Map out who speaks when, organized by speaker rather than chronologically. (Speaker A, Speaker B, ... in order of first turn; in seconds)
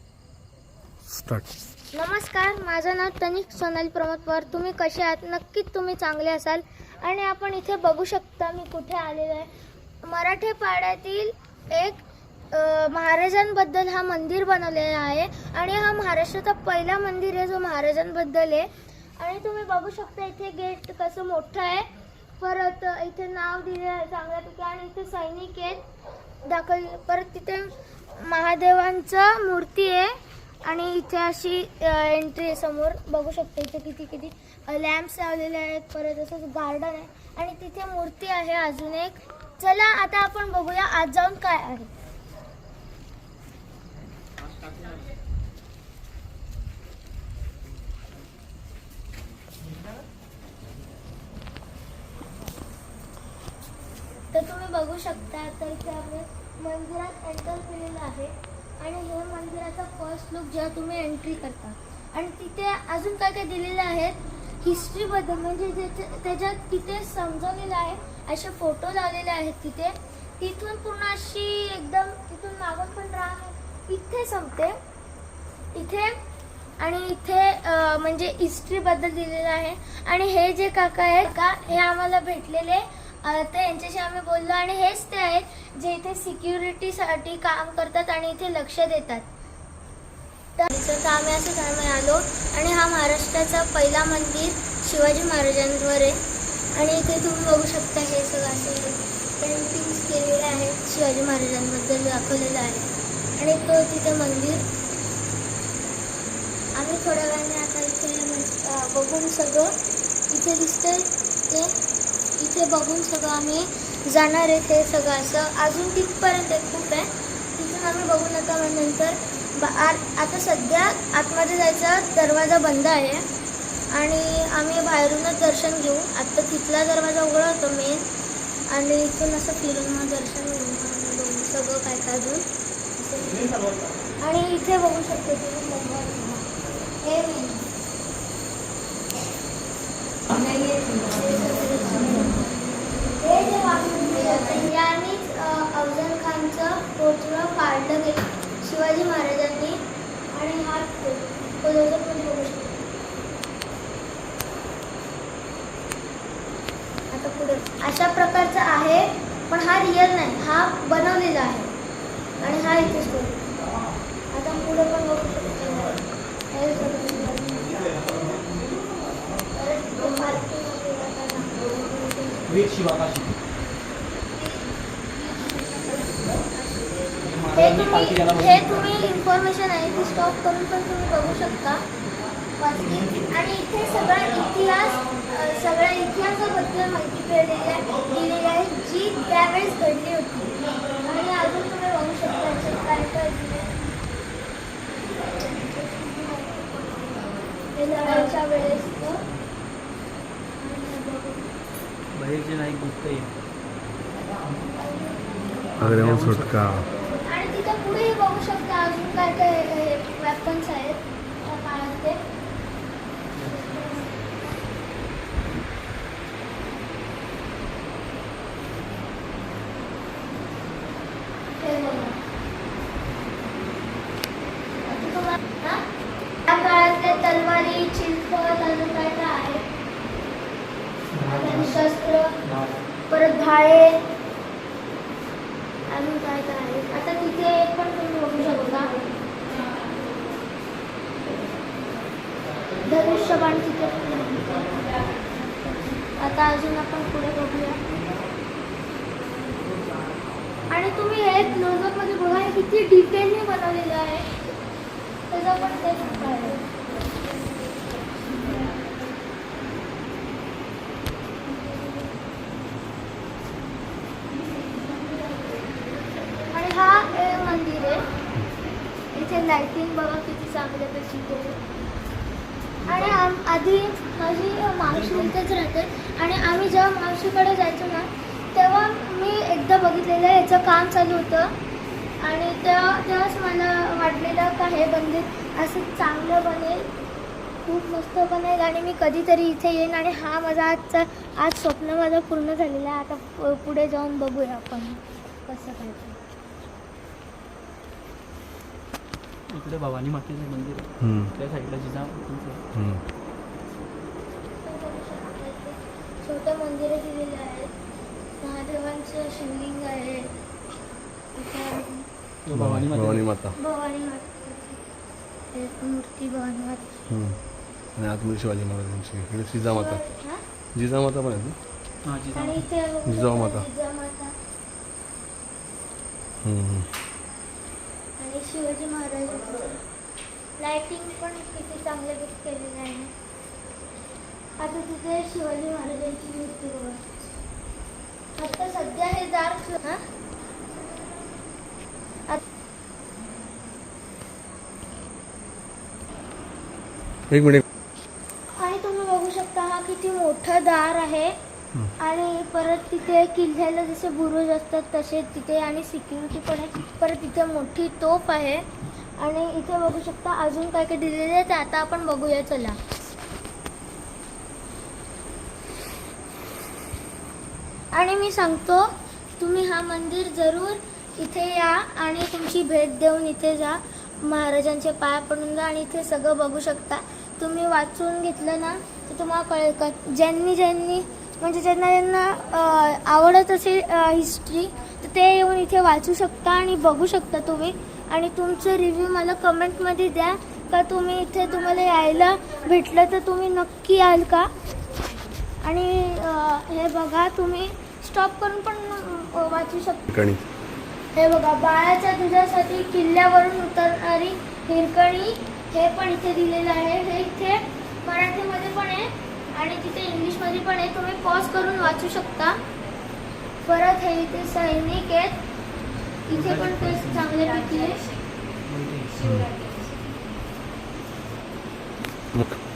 Speaker A: 1.1-1.5, 205.8-206.9, 301.0-301.3, 302.7-303.0, 312.5-313.6, 317.1-317.4, 318.0-320.0, 320.7-321.6, 323.1-323.7, 326.4-326.9, 347.3-347.6, 400.1-400.4, 419.2-419.5
Speaker B: 1.9-9.5, 10.0-25.9, 26.4-41.9, 54.3-74.8, 75.7-76.2, 76.8-89.3, 90.6-96.2, 96.7-104.7, 106.8-109.8, 110.3-111.8, 112.4-123.3, 123.9-128.1, 128.7-133.6, 134.2-136.5, 137.0-137.7, 140.9-142.4, 143.2-152.8, 157.1-161.7, 162.4-163.4, 164.3-168.4, 169.5-172.7, 175.7-175.9, 177.6-181.8, 182.6-193.7, 195.7-196.6, 197.7-199.2, 200.6-201.5, 207.2-212.2, 213.4-214.2, 221.5-222.2, 224.8-225.9, 226.5-229.7, 231.2-232.4, 233.1-234.0, 235.9-238.9, 242.8-245.1, 246.2-247.8, 250.7-254.3, 255.3-256.6, 266.5-268.1, 269.1-271.6, 272.9-281.6, 282.2-286.9, 287.6-296.2, 304.6-307.7, 308.4-310.4, 311.4-312.1, 313.5-314.8, 315.5-317.0, 319.6-320.4, 322.3-324.4, 328.2-329.8, 330.6-333.1, 334.6-337.0, 338.4-340.1, 348.5-351.4, 352.0-358.7, 359.2-362.8, 367.9-394.5, 395.6-400.1, 401.1-412.6, 413.6-415.4, 416.3-418.1
Speaker C: 172.5-173.3, 177.2-178.8, 202.1-203.3, 205.8-206.7, 213.3-213.9, 231.1-231.7, 232.4-232.7, 272.9-273.2, 299.5-302.6, 312.5-313.3, 322.0-322.6, 416.3-417.3, 418.7-419.4